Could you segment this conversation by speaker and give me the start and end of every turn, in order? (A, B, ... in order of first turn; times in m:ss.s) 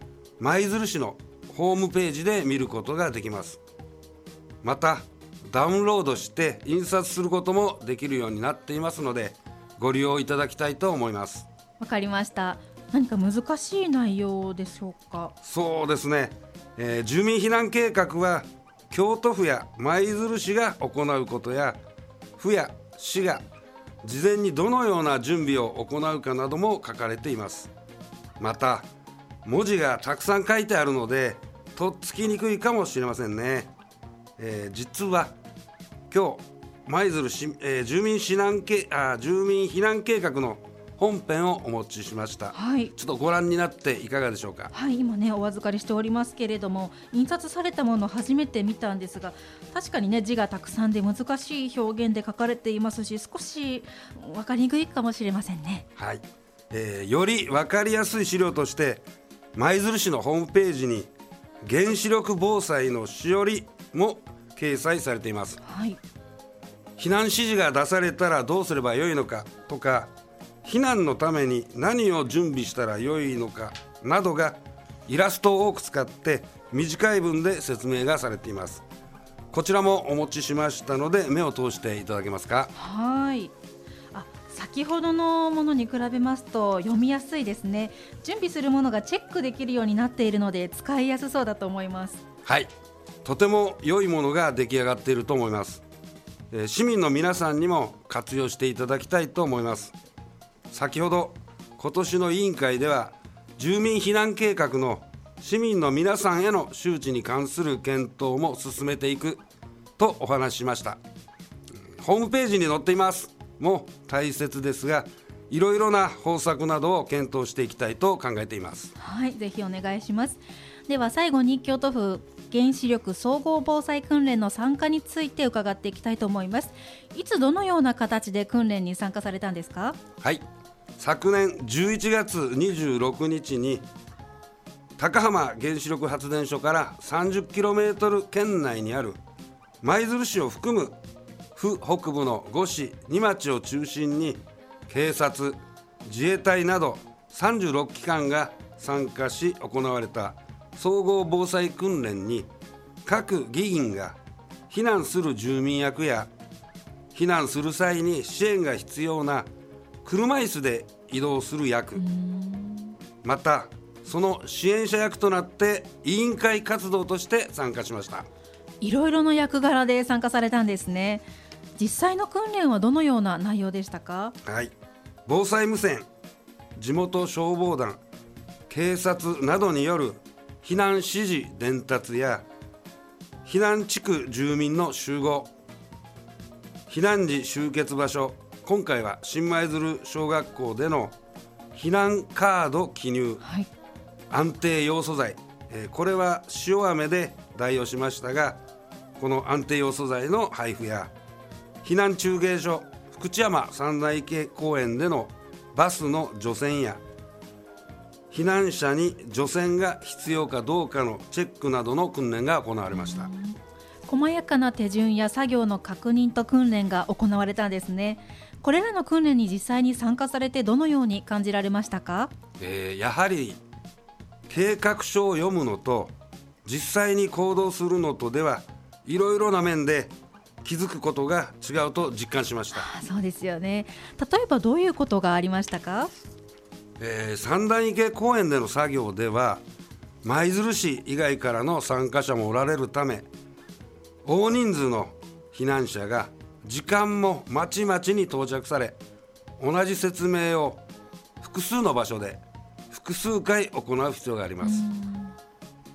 0:00.4-0:03.6 A
0:04.6-0:11.5 A
0:11.8-0:15.3 B
0:15.4-0:21.8 A
0:22.4-0:23.4 A
0:24.0-0:27.7 A
0:28.4-0:28.9 A
0:29.4-0:33.7 A
0:34.4-0:35.4 A
0:36.1-0:44.7 A
0:42.6-0:42.9 B
0:44.7-0:55.9 B
0:56.0-0:59.0 A
0:59.6-1:01.1 A
1:01.6-1:05.6 A
1:05.6-1:06.0 B
1:07.0-1:10.1 A
1:10.6-1:18.8 A
1:19.5-1:22.7 A
1:22.8-1:23.5 B
1:24.1-1:32.2 B
1:32.5-1:32.7 A
1:33.2-1:35.8 A
1:36.5-1:39.9 A
1:40.7-1:49.4 A
1:50.0-1:51.0 A
1:52.0-1:58.9 A
1:59.0-2:10.0 B
2:11.0-2:13.9 A
2:15.0-2:19.2 A
2:19.8-2:21.0 A
2:21.6-2:32.5 A
2:33.0-2:34.2 A
2:34.7-2:36.3 A
2:37.1-2:39.5 A
2:40.0-2:42.0 A
2:42.0-2:43.0 B
2:43.2-2:48.3 A
2:48.8-2:51.3 B
2:51.8-2:54.4 B
2:54.4-2:54.7 A
2:55.3-2:56.1 A
2:56.8-2:58.0 A
2:58.7-3:02.5 A
3:03.4-3:05.5 A
3:06.9-3:11.1 A
3:11.7-3:13.4 A
3:13.4-3:13.7 B
3:14.3-3:18.6 A
3:19.2-3:21.1 A
3:21.8-3:27.0 A
3:28.3-3:33.3 A
3:32.9-3:42.3 B
3:42.6-3:43.6 A
3:44.5-3:46.1 A
3:46.6-3:52.9 A
3:52.8-3:56.1 B
3:57.0-3:59.6 A
4:00.2-4:03.3 A
4:04.2-4:09.0 A
4:09.6-4:10.8 A
4:11.4-4:14.9 A
4:14.6-4:15.3 B